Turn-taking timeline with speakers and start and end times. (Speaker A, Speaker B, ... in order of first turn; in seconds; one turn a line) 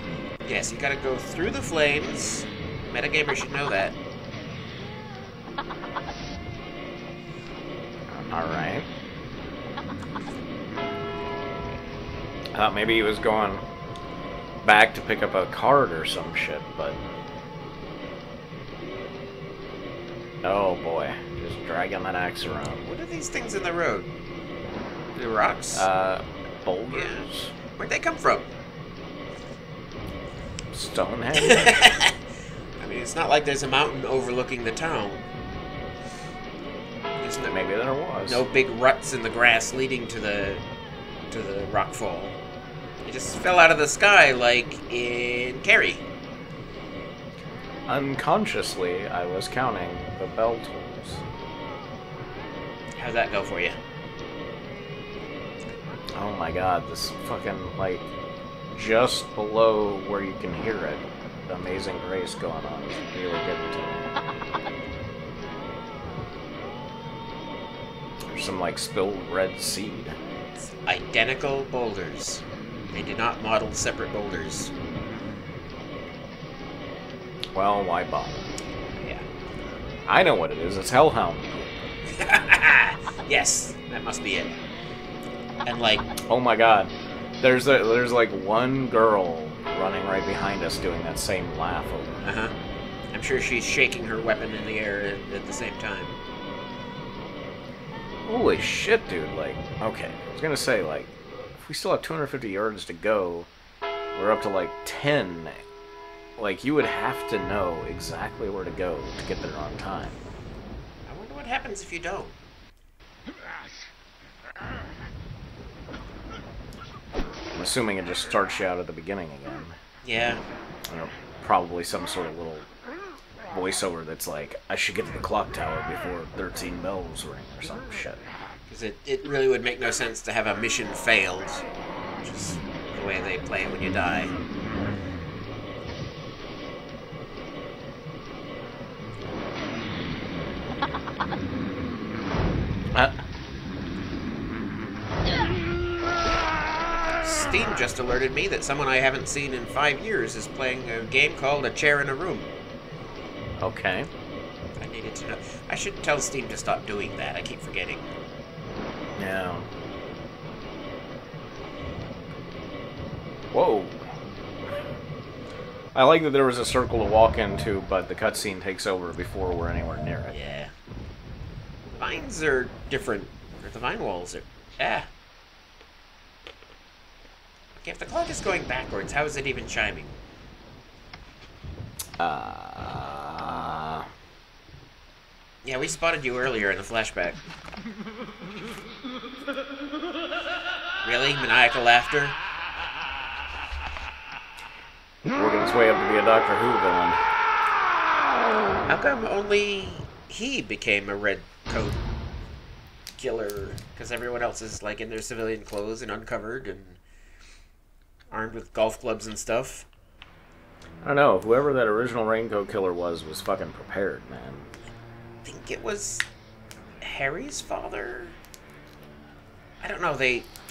Speaker A: 0.4-4.0
Speaker B: 8.1-8.9
Speaker B: 12.5-13.6
Speaker B: 14.6-17.0
Speaker B: 20.4-22.9
Speaker A: 22.8-24.1
Speaker A: 25.1-25.9
Speaker B: 25.7-27.5
Speaker A: 26.9-28.5
Speaker B: 30.7-31.9
Speaker A: 31.3-32.1
Speaker A: 32.8-35.3
Speaker A: 37.1-37.6
Speaker B: 37.5-38.4
Speaker A: 38.2-40.6
Speaker A: 41.3-42.4
Speaker A: 43.0-46.0
Speaker B: 47.9-51.2
Speaker A: 53.0-53.8
Speaker B: 56.1-58.1
Speaker B: 58.7-64.1
Speaker B: 68.3-70.2
Speaker A: 70.7-74.7
Speaker B: 77.5-78.4
Speaker A: 79.0-79.2
Speaker B: 80.1-81.9
Speaker A: 82.1-84.5
Speaker A: 85.6-86.1
Speaker B: 86.2-92.2
Speaker A: 92.2-92.5
Speaker A: 93.1-96.2
Speaker B: 98.2-103.5
Speaker B: 104.1-105.6
Speaker B: 106.4-110.2
Speaker A: 111.0-112.4
Speaker B: 117.5-119.8
Speaker A: 120.0-120.4
Speaker B: 120.9-122.7
Speaker B: 123.5-128.2
Speaker A: 128.7-131.7
Speaker A: 132.2-134.3
Speaker B: 142.9-143.2
Speaker A: 147.1-152.5
Speaker B: 153.6-154.1
Speaker A: 154.8-158.1
Speaker B: 159.2-159.7
Speaker B: 163.5-164.0
Speaker B: 165.9-170.3
Speaker A: 170.3-170.7
Speaker A: 171.9-175.1
Speaker A: 177.8-180.2
Speaker B: 182.2-184.1
Speaker A: 185.6-187.4
Speaker A: 191.0-192.4
Speaker B: 195.3-197.2
Speaker A: 198.8-202.0
Speaker A: 203.2-207.0
Speaker A: 208.3-209.9
Speaker B: 211.0-214.7
Speaker A: 215.4-216.2
Speaker A: 217.0-218.4
Speaker A: 219.8-220.5